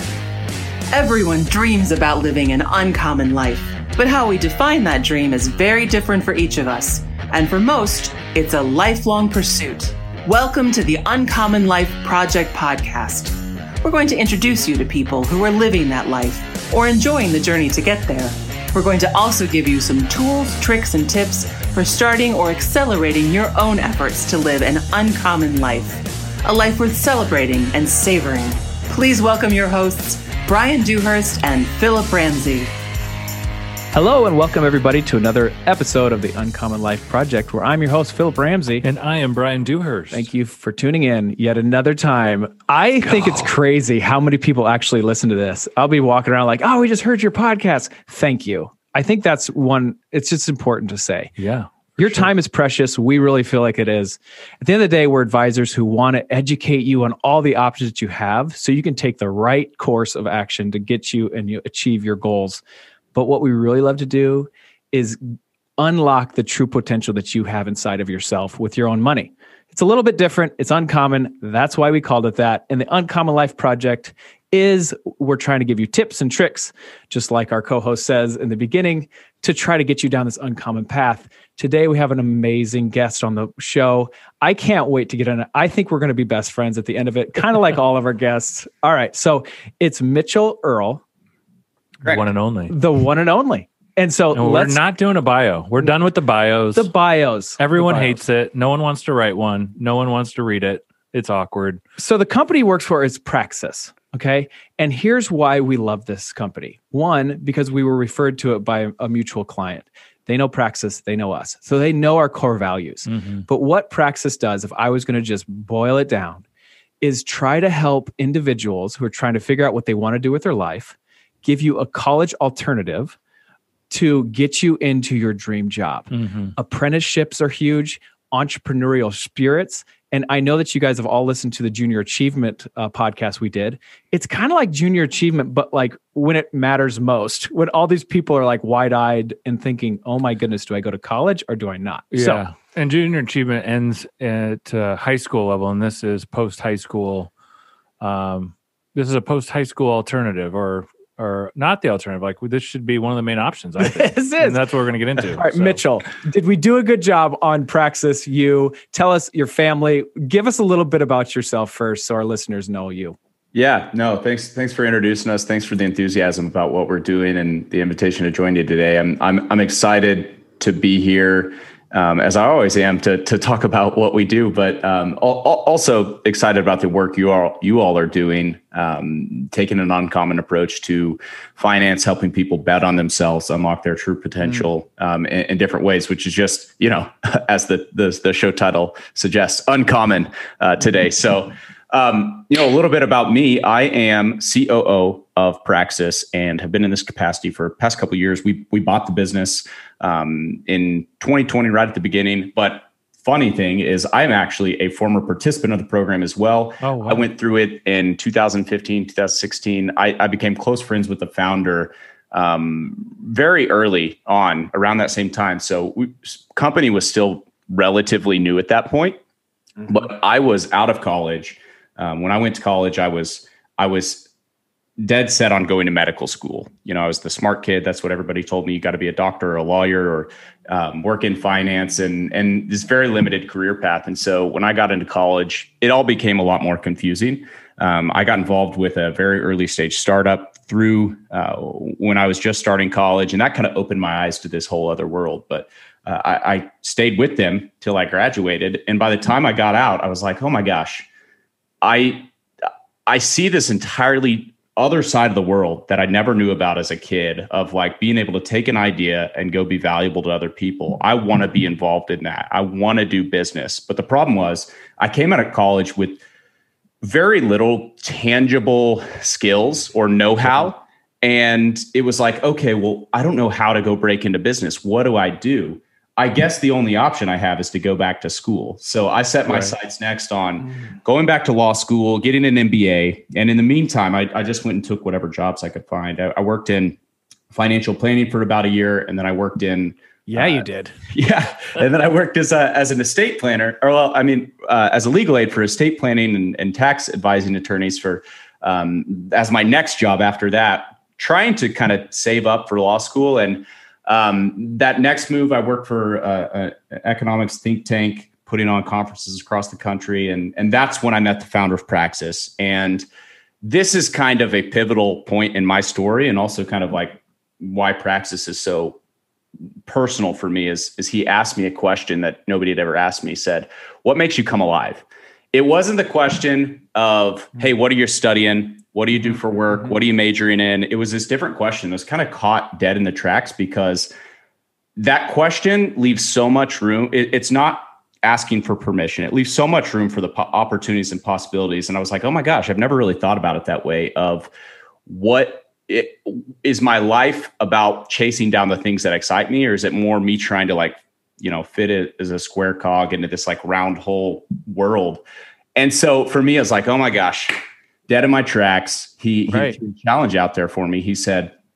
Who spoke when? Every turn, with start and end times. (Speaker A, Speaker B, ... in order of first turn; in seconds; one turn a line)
Speaker A: 0.9-32.7
Speaker B: 33.9-38.8
Speaker C: 38.8-40.3
Speaker B: 40.1-51.3
Speaker C: 43.1-43.4
Speaker C: 51.4-52.3
Speaker B: 52.0-62.6
Speaker B: 63.1-91.0
Speaker C: 92.0-92.7
Speaker B: 92.7-94.8
Speaker C: 94.3-96.9
Speaker B: 96.7-98.2
Speaker C: 97.6-101.8
Speaker B: 102.0-116.5
Speaker C: 113.1-113.5
Speaker B: 117.0-123.2
Speaker B: 123.9-142.4
Speaker C: 126.1-126.5
Speaker C: 142.1-147.3
Speaker C: 148.0-155.8
Speaker B: 153.8-154.6
Speaker B: 155.3-163.2
Speaker D: 163.5-219.2
Speaker C: 206.8-207.2
Speaker D: 219.9-224.3
Speaker D: 225.0-251.1
Speaker D: 251.8-252.3
Speaker D: 253.1-266.2
Speaker D: 267.0-287.0
Speaker C: 279.4-279.7
Speaker D: 287.5-313.1
Speaker B: 290.3-290.9
Speaker D: 313.6-319.0
Speaker D: 319.9-334.1
Speaker D: 334.9-344.5
Speaker D: 345.1-355.2
Speaker D: 355.8-361.5
Speaker B: 359.5-359.8